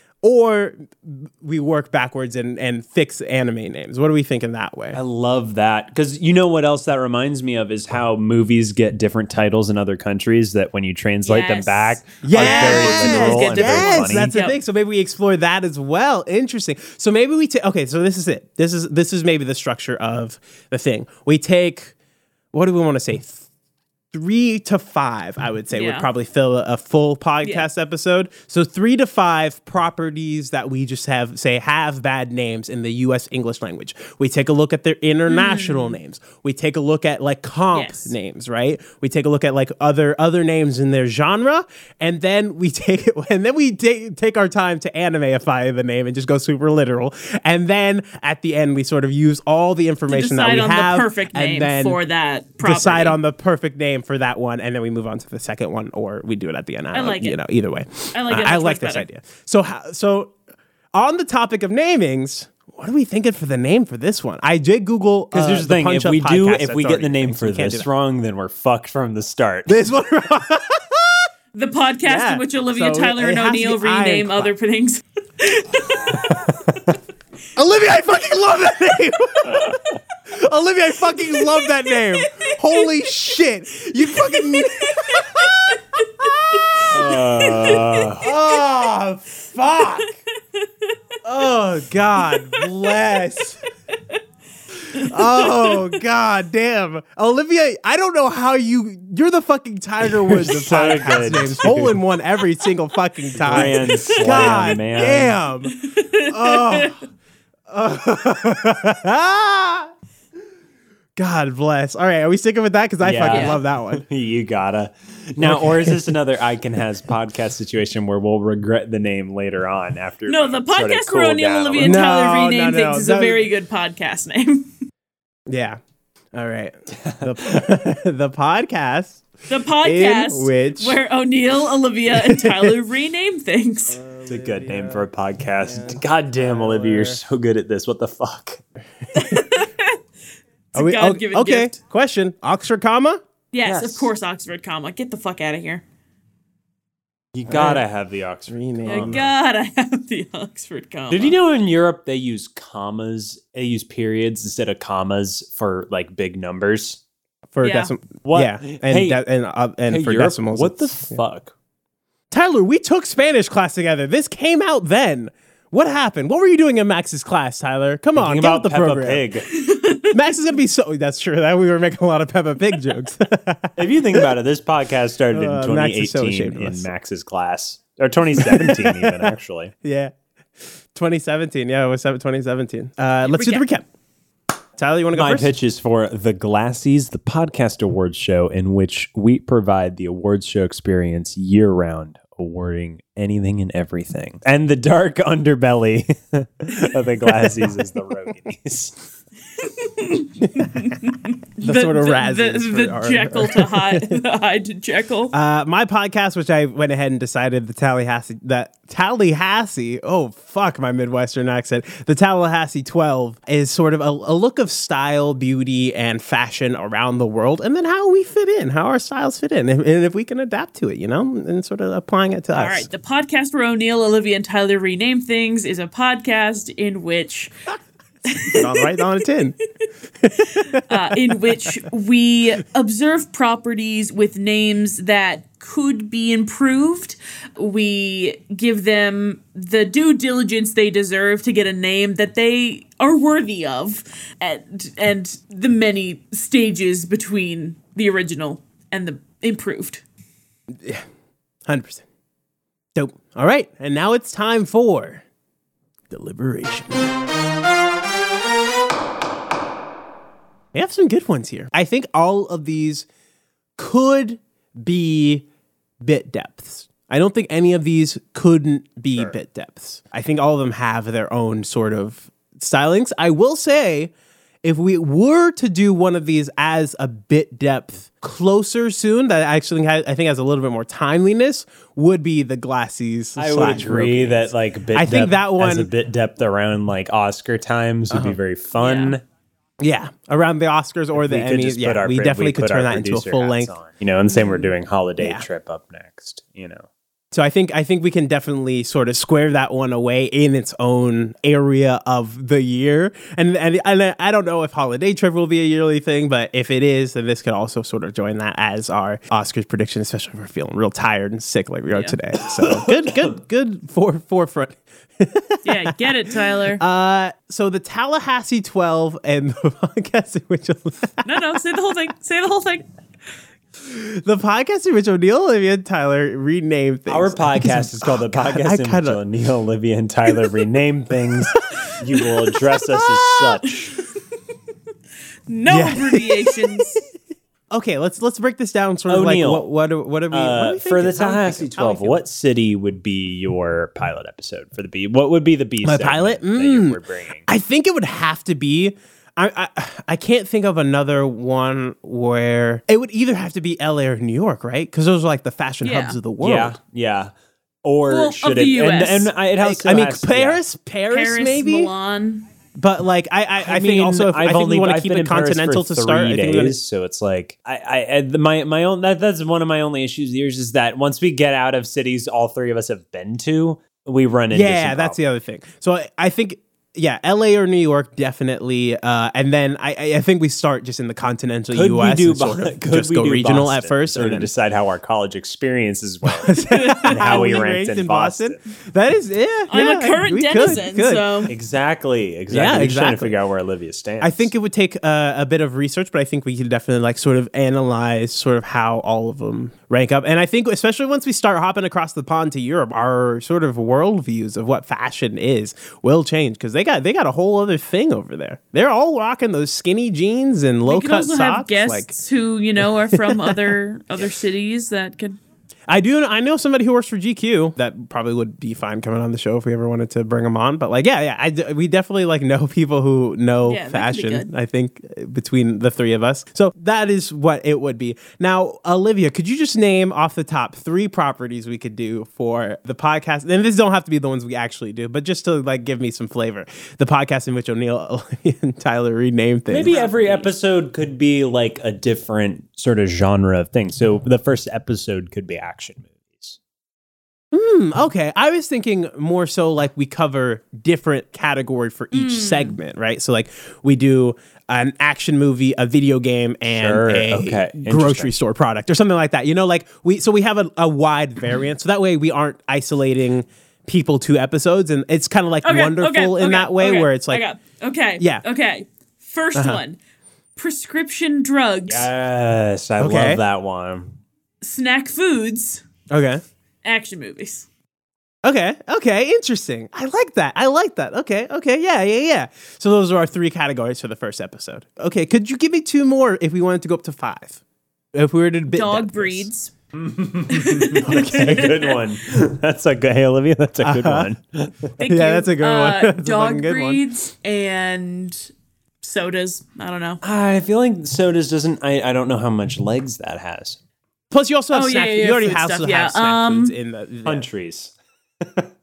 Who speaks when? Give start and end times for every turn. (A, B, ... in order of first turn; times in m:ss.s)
0:00.2-0:05.0 A
0:04.9-0:14.3 B
0:11.3-0:14.6 C
0:12.2-0:21.9 A
0:22.5-0:23.4 A
0:24.1-0:52.0 A
0:25.7-0:26.1 C
0:35.3-0:36.0 C
0:37.7-0:38.2 C
0:50.1-0:53.2 C
0:52.6-1:00.3 A
0:56.9-0:57.4 C
0:58.1-0:59.1 C
1:00.9-1:07.9 A
1:05.3-1:09.8 B
1:09.7-1:10.8 A
1:11.5-1:16.5 C
1:12.1-1:14.5 A
1:17.6-1:19.8 A
1:20.3-1:27.7 A
1:21.2-1:22.9 C
1:24.1-1:26.0 C
1:26.6-1:28.1 C
1:26.9-1:28.3 B
1:28.2-1:30.1 A
1:31.2-1:33.6 A
1:32.2-1:33.0 C
1:34.9-1:45.7 A
1:35.0-1:35.9 C
1:40.0-1:42.0 B
1:43.4-1:45.4 B
1:43.6-1:44.8 C
1:45.8-1:47.0 C
1:46.3-1:47.0 A
1:47.7-1:49.9 A
1:51.2-1:54.0 A
1:53.0-2:02.1 B
1:53.3-1:53.6 C
1:55.4-1:56.0 A
2:00.3-2:04.7 C
2:01.8-2:03.4 A
2:05.5-2:05.8 A
2:06.3-2:09.2 A
2:06.9-2:07.6 B
2:09.5-2:14.0 C
2:09.8-2:11.0 A
2:12.2-2:12.7 A
2:13.9-2:15.1 A
2:14.3-2:18.6 B
2:15.6-2:17.2 A
2:19.1-2:20.0 C
2:20.7-2:21.8 C
2:20.8-2:23.2 A
2:23.5-2:25.8 C
2:23.6-2:24.1 B
2:27.3-2:29.3 B
2:27.5-2:27.8 A
2:28.5-2:29.2 A
2:28.9-2:31.4 C
2:31.1-2:37.0 B
2:37.5-2:41.2 A
2:37.6-2:37.9 C
2:38.2-2:39.2 B
2:39.9-2:41.5 B
2:42.3-2:49.3 A
2:48.2-2:49.5 B
2:49.5-2:50.1 C
2:50.1-2:53.7 A
2:53.8-2:59.7 B
2:55.3-2:56.9 A
2:58.4-2:59.3 A
2:59.8-3:00.1 A
3:01.0-3:03.8 A
3:03.2-3:03.6 C
3:04.8-3:05.5 A
3:05.1-3:19.1 B
3:19.6-3:25.3 C
3:21.6-3:24.2 A
3:25.3-3:42.9 A
3:42.5-3:47.5 C
3:48.3-3:49.1 C
3:48.4-3:49.6 A
3:50.5-4:10.0 C
4:11.7-4:12.0 A
4:13.0-4:15.2 A
4:16.1-4:17.1 A
4:20.7-4:23.0 A
4:23.8-4:25.4 A
4:26.0-4:34.1 A
4:34.6-4:45.9 A
4:43.4-4:49.2 B
4:48.1-4:48.4 A
4:48.8-4:49.2 C
4:49.8-4:53.7 A
4:51.2-4:56.9 B
4:57.3-5:15.7 A
5:12.6-5:13.3 B
5:15.6-5:16.8 C
5:16.8-5:21.1 A
5:21.2-5:22.8 C
5:23.9-5:29.2 A
5:27.1-5:34.0 B
5:35.5-5:37.0 C
5:35.7-5:36.7 A
5:37.7-5:42.2 A
5:39.1-5:39.7 B
5:40.3-5:47.5 B
5:45.8-5:56.8 A
5:55.8-5:56.2 C
5:56.4-5:57.3 B
5:57.8-6:00.6 B
5:58.1-5:59.3 C
5:59.6-6:01.9 A
6:01.1-6:02.5 C
6:02.8-6:06.8 A
6:03.6-6:15.2 B
6:14.5-6:24.5 A
6:21.7-6:28.6 B
6:26.3-6:31.5 A
6:26.6-6:27.5 C
6:29.7-6:31.5 C
6:31.5-6:34.5 B
6:32.5-6:33.4 A
6:34.2-6:52.1 A
6:50.9-6:55.4 C
6:53.1-6:53.6 A
6:55.9-7:20.5 A
7:03.6-7:04.5 C
7:19.7-7:26.6 B
7:19.9-7:20.3 C
7:27.5-7:47.4 A
7:32.1-7:32.8 C
7:36.7-7:38.3 B
7:45.6-7:50.0 C
7:49.6-7:49.8 A
7:50.6-7:52.1 C
7:51.9-7:54.2 B
7:53.0-7:53.4 A
7:54.6-7:55.8 C
7:56.1-7:56.4 A
7:56.8-7:57.7 C
7:58.4-8:07.6 A
8:08.1-8:09.5 A
8:08.7-8:09.7 C
8:09.9-8:15.0 B
8:10.5-8:12.0 C
8:11.0-8:11.8 A
8:13.8-8:14.3 A
8:15.0-8:18.5 C
8:15.0-8:17.0 A
8:19.0-8:20.2 C
8:20.2-8:23.8 B
8:24.3-8:27.5 A
8:24.7-8:26.8 C
8:27.2-8:28.7 B